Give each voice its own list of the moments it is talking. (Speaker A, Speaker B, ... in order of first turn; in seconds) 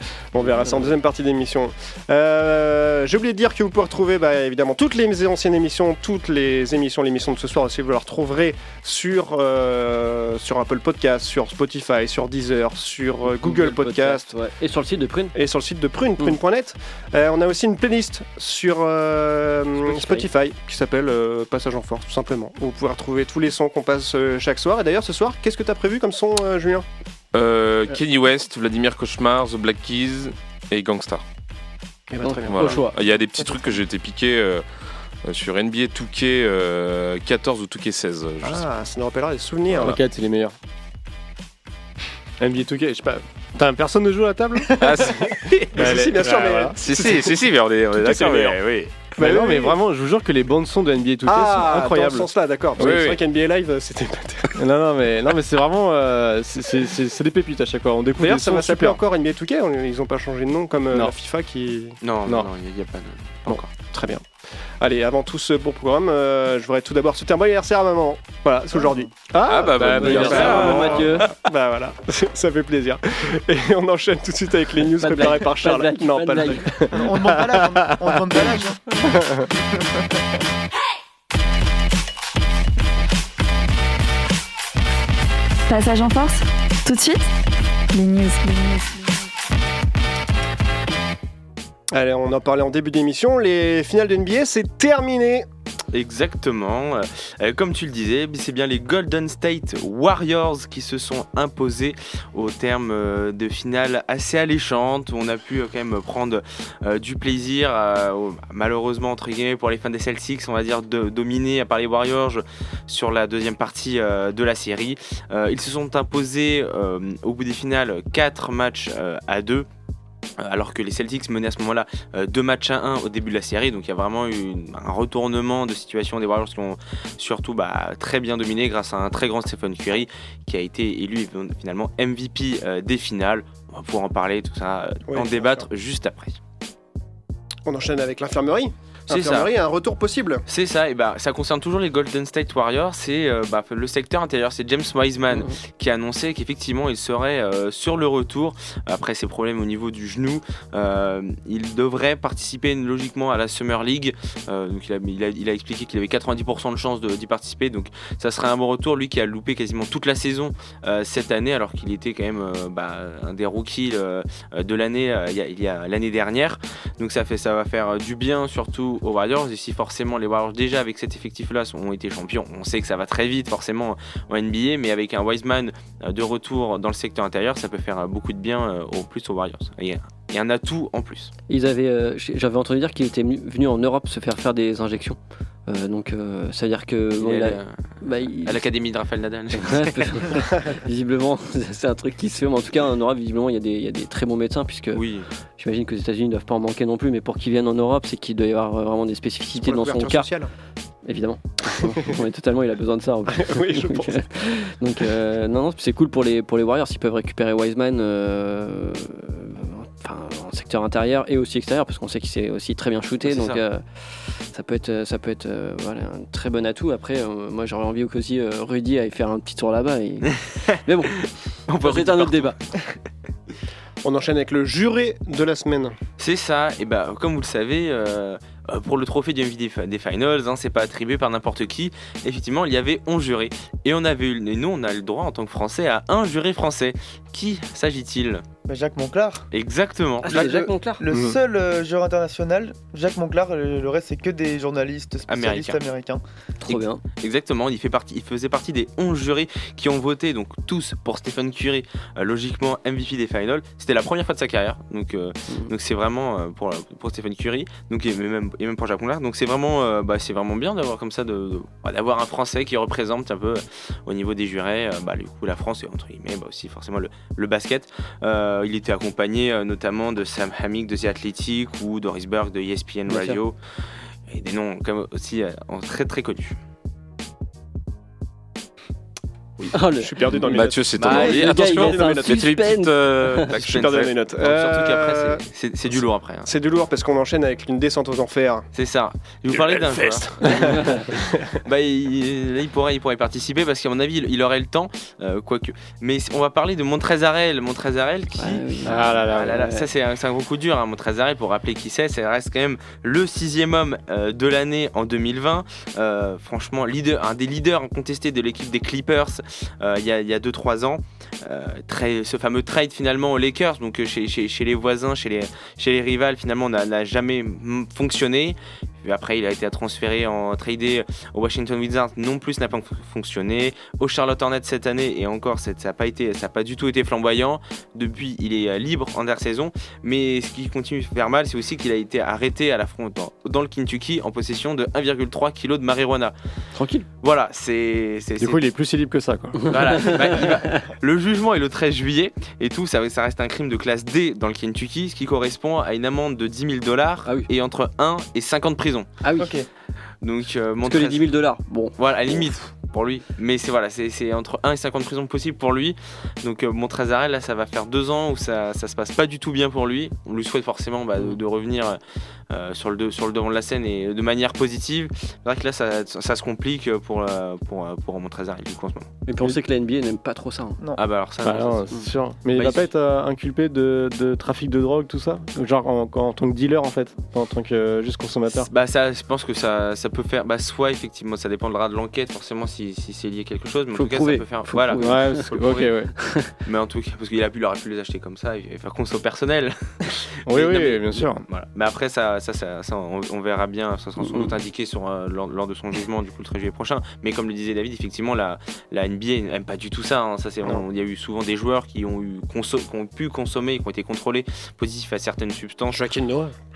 Speaker A: 0.3-14.3, 15.3-26.9, 32.1-32.9, 38.4-40.0, 45.7-47.4, 47.9-48.6, 49.1-49.8, 51.2-54.6, 58.2-62.0, 63.8-77.2, 91.9-95.5, 135.1-135.6, 137.7-140.4, 199.5-200.5, 203.3-204.5, 224.0-226.0, 279.9-282.6, 283.5-285.4, 285.9-288.7, 290.0-290.2, 405.9-406.6
Speaker B: 0.6-0.9, 76.9-80.2, 238.7-239.5, 240.3-246.2, 349.4-349.7
Speaker C: 13.2-15.3, 19.9-20.3, 32.2-33.0, 70.0-71.2, 75.0-76.7, 181.5-188.7, 189.6-195.0, 195.6-200.3, 201.1-221.2, 221.8-222.6, 240.2-241.0, 246.6-247.0, 273.1-273.4, 279.7-280.4, 280.9-283.5, 290.6-291.0, 298.4-299.9, 336.8-337.1, 339.7-340.2, 349.2-349.5, 350.9-352.4, 369.3-370.8, 383.9-385.5, 386.2-386.5, 394.2-394.6
Speaker D: 27.3-31.2, 32.5-34.6, 35.2-38.7, 44.8-46.0, 46.8-49.1, 52.8-53.2, 69.5-71.1, 280.4-284.1
Speaker E: 39.7-40.5, 42.4-45.1, 45.7-46.8, 49.2-53.0, 54.6-59.0, 69.7-70.6, 298.9-299.6, 338.4-339.7, 371.4-378.7, 385.0-386.1, 390.5-391.4
Speaker F: 62.0-63.7, 95.9-119.7, 120.4-136.4, 139.1-139.5, 140.5-181.3, 187.2-187.8, 188.3-190.3, 194.9-195.3, 213.2-213.6, 221.2-222.9, 226.2-238.4, 239.5-240.4, 245.3-245.8, 246.7-273.6, 274.3-276.6, 281.0-281.3, 283.6-286.5, 288.7-290.8, 291.6-336.3, 337.2-338.6, 339.7-349.1, 350.2-351.3, 352.0-362.0, 362.5-369.1, 371.0-371.9, 372.5-372.9, 378.7-385.9, 386.6-406.1
Speaker G: 85.7-87.3, 87.9-89.1